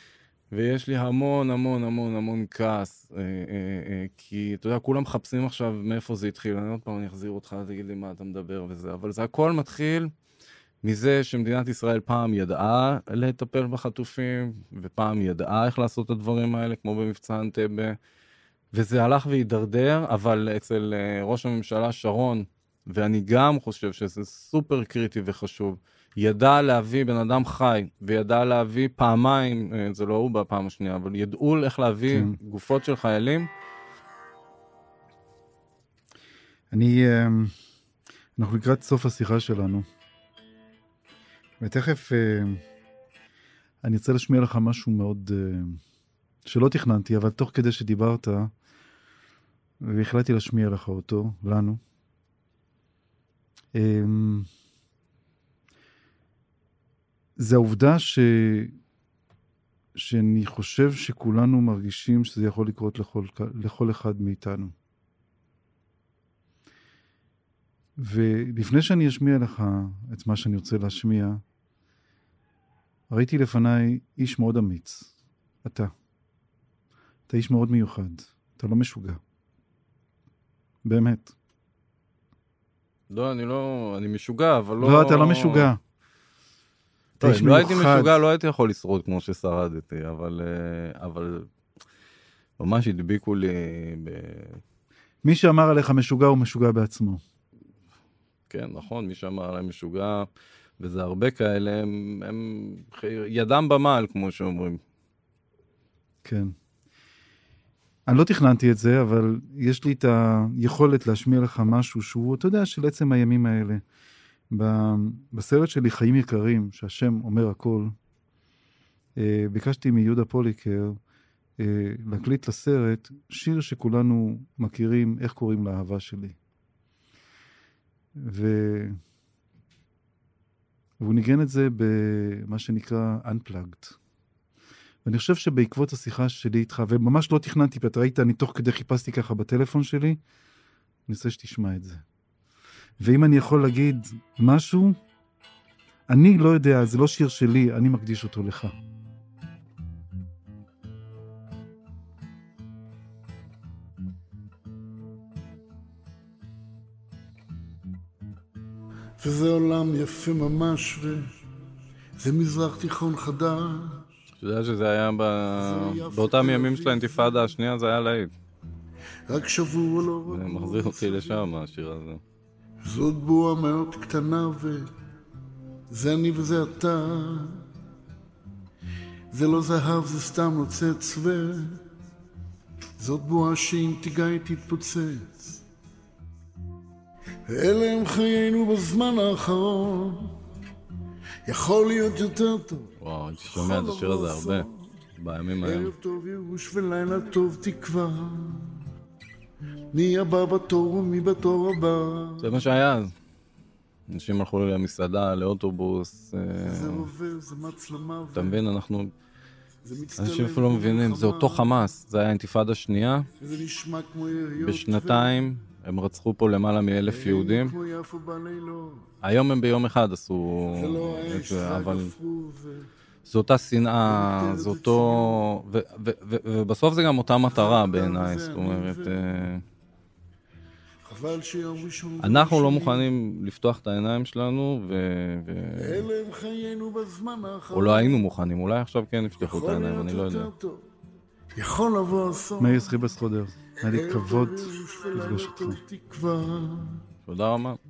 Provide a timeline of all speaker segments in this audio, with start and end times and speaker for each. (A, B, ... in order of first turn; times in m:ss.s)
0:00.5-0:10.1 A
0:10.8-0:18.0 A
0:18.7-0:33.5 A
0:32.1-0:32.4 B
0:36.7-0:37.6 B
0:38.4-0:39.9 B
0:41.6-0:42.6 B
0:43.8-0:45.8 B
0:46.5-0:48.5 B
0:49.8-0:51.8 B
0:53.7-0:54.5 B
0:57.4-0:58.8 B
1:00.0-1:04.7 B
1:08.0-1:11.4 B
1:13.1-1:15.1 B
1:15.6-1:15.9 B
1:17.3-1:19.2 B
1:20.8-1:21.3 B
1:23.1-1:25.7 A
1:24.8-1:25.8 B
1:27.2-1:28.1 B
1:27.2-1:31.5 A
1:32.6-1:34.6 A
1:35.2-1:37.2 B
1:38.5-1:40.3 A
1:40.8-1:44.8 A
1:46.2-1:46.5 B
1:48.1-1:53.8 B
1:54.5-1:57.9 B
1:59.2-2:01.0 B
2:01.6-2:06.4 B
2:08.2-2:09.0 B
2:11.0-2:14.0 B
2:15.0-2:20.2 B
2:21.1-2:22.0 B
2:23.0-2:25.0 B
2:26.1-2:28.7 B
2:39.2-2:41.3 C
2:42.2-2:44.0 C
2:44.4-2:48.3 A
2:45.6-2:47.4 C
2:49.3-2:51.5 C
2:50.3-2:52.2 A
2:52.8-2:54.9 C
2:55.9-2:57.6 C
2:59.3-3:01.8 C
3:03.0-3:05.6 C
3:07.5-3:10.4 C
3:11.5-3:12.9 C
3:13.0-3:15.9 A
3:13.5-3:14.8 C
3:15.6-3:18.8 C
3:19.9-3:22.6 C
3:22.4-3:23.1 A
3:24.1-3:27.1 A
3:26.6-3:28.6 C
3:28.4-3:29.1 A
3:29.8-3:31.8 C
3:30.2-3:33.3 A
3:33.4-3:35.4 C
3:34.6-3:37.7 A
3:37.1-3:39.1 C
3:39.2-3:42.1 A
3:40.7-3:42.9 C
3:43.3-3:49.6 A
3:44.1-3:45.4 C
3:47.5-3:49.2 C
3:51.0-3:53.1 C
3:52.2-3:56.0 A
3:55.8-3:58.2 C
3:57.7-4:00.5 A
3:59.4-4:00.8 C
4:01.6-4:02.9 C
4:02.6-4:05.8 B
4:03.8-4:07.0 C
4:07.3-4:07.8 A